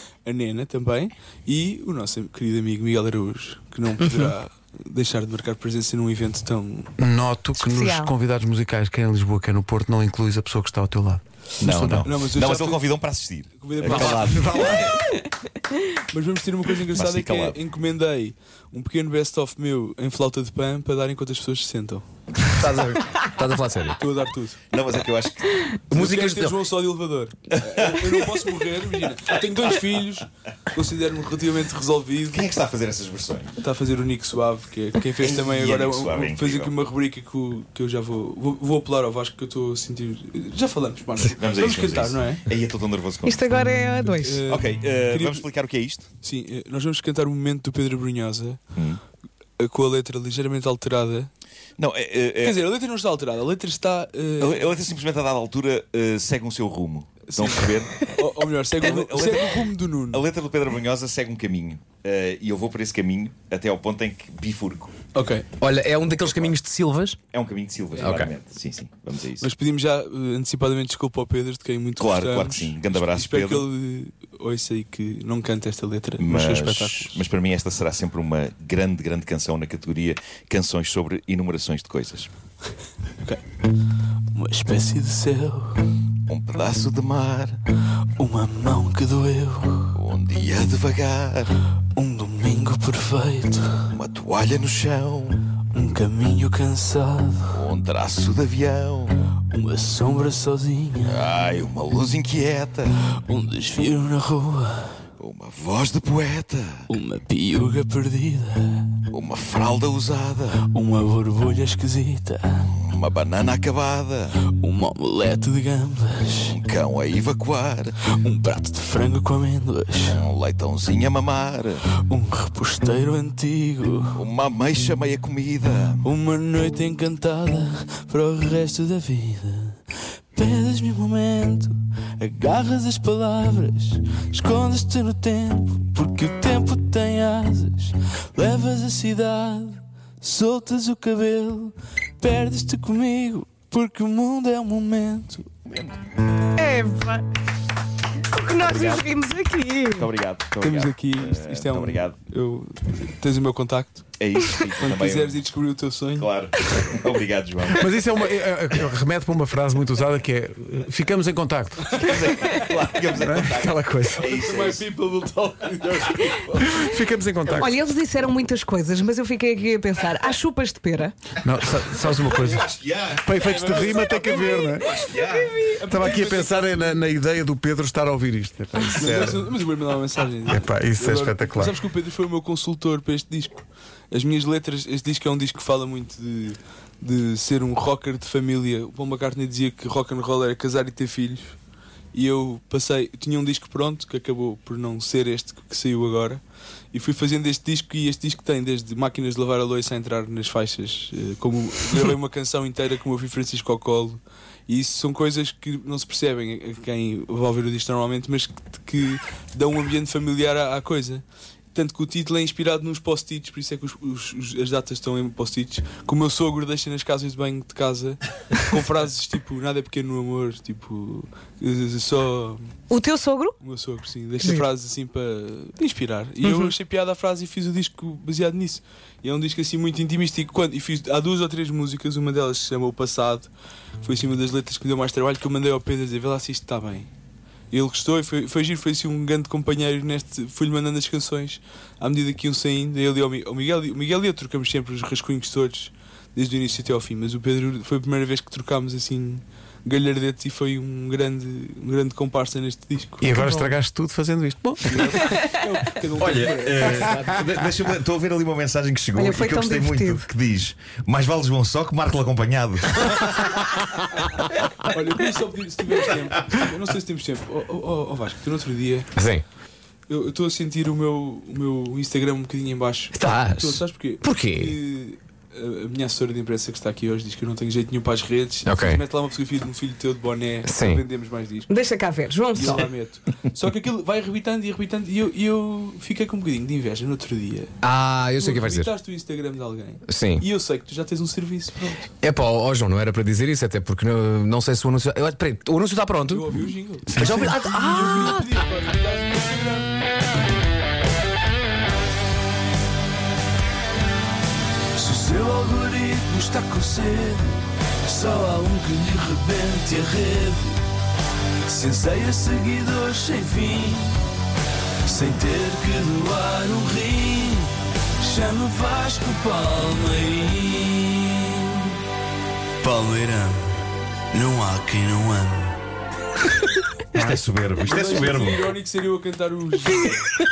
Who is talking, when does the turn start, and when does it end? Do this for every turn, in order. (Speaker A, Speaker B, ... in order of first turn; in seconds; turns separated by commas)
Speaker A: 0.2-6.9, Speaker B: 7.0-12.1, Speaker C: 7.6-8.1, Speaker D: 11.6-15.0, Speaker A: 12.0-12.9, Speaker A: 13.6-14.8, Speaker B: 13.8-14.9, Speaker A: 16.1-22.1, Speaker D: 16.9-17.6, Speaker E: 22.4-24.0, Speaker A: 24.0-24.6, Speaker D: 24.7-26.2, Speaker A: 25.9-32.5, Speaker E: 25.9-26.6, Speaker D: 27.8-28.2, Speaker D: 32.3-33.5, Speaker A: 33.6-42.5, Speaker D: 35.2-36.7, Speaker D: 41.2-43.5, Speaker C: 43.2-44.4, Speaker A: 44.2-45.5, Speaker D: 44.4-46.1, Speaker A: 46.2-48.6, Speaker A: 49.6-51.3, Speaker D: 51.8-52.7, Speaker A: 52.4-54.8, Speaker D: 54.4-58.1, Speaker A: 57.2-60.2, Speaker D: 58.8-64.9, Speaker A: 65.1-65.5, Speaker E: 65.6-67.2, Speaker D: 66.1-66.6, Speaker D: 67.3-69.5, Speaker E: 68.0-68.3, Speaker A: 69.4-77.2, Speaker D: 72.0-73.7, Speaker D: 76.2-82.3, Speaker A: 84.3-85.8, Speaker D: 86.3-87.6, Speaker A: 88.2-90.0, Speaker D: 89.9-91.6, Speaker A: 91.9-93.9, Speaker D: 93.9-95.4, Speaker A: 95.7-97.6, Speaker D: 97.5-99.2, Speaker A: 99.5-101.2, Speaker D: 101.0-103.0, Speaker A: 103.2-105.0, Speaker D: 105.2-106.9, Speaker A: 106.9-109.0, Speaker D: 109.1-110.6, Speaker A: 110.6-112.7, Speaker D: 112.7-114.4, Speaker A: 114.4-116.6, Speaker D: 116.5-118.0, Speaker A: 118.0-120.2, Speaker D: 120.1-121.8, Speaker A: 122.0-124.2, Speaker D: 124.1-126.0, Speaker A: 126.0-129.8, Speaker A: 130.3-145.5, Speaker D: 145.7-146.0, Speaker C: 146.6-147.3, Speaker C: 148.2-150.1, Speaker D: 148.6-149.2, Speaker D: 149.9-152.2, Speaker A: 150.6-154.1, Speaker D: 154.2-155.4, Speaker A: 154.8-156.3, Speaker D: 156.2-158.0, Speaker B: 157.8-162.0, Speaker D: 161.9-164.8, Speaker A: 162.0-162.7, Speaker B: 163.2-164.2, Speaker A: 164.1-166.9, Speaker B: 166.6-167.7, Speaker C: 167.6-171.2, Speaker B: 171.4-172.7, Speaker D: 172.0-175.6, Speaker B: 173.2-174.9, Speaker A: 173.4-177.0, Speaker C: 174.4-175.4, Speaker B: 175.9-179.2, Speaker A: 178.9-191.6, Speaker D: 179.0-179.4, Speaker B: 180.5-181.7, Speaker A: 192.1-196.4, Speaker A: 196.9-222.7, Speaker C: 222.9-223.6, Speaker A: 223.6-233.5, Speaker C: 226.4-226.7, Speaker A: 234.0-237.1, Speaker A: 237.7-253.3, Speaker B: 253.2-255.4, Speaker C: 253.4-253.7, Speaker A: 254.8-257.2, Speaker D: 256.2-263.6, Speaker E: 256.9-257.5, Speaker C: 259.2-260.3, Speaker E: 263.2-264.9, Speaker A: 264.9-269.1, Speaker E: 269.2-269.4, Speaker A: 270.1-281.7, Speaker E: 273.1-274.8, Speaker E: 278.6-279.0, Speaker E: 280.7-281.0, Speaker C: 281.7-282.8, Speaker A: 282.5-287.8, Speaker E: 287.8-288.9, Speaker A: 288.4-292.1, Speaker E: 290.1-290.4, Speaker E: 292.2-296.5, Speaker A: 296.3-299.9, Speaker B: 297.1-297.6, Speaker E: 297.2-298.5, Speaker A: 304.9-310.8, Speaker A: 311.6-314.3, Speaker A: 315.1-321.9, Speaker A: 322.8-325.8, Speaker D: 327.1-328.7, Speaker A: 327.8-330.3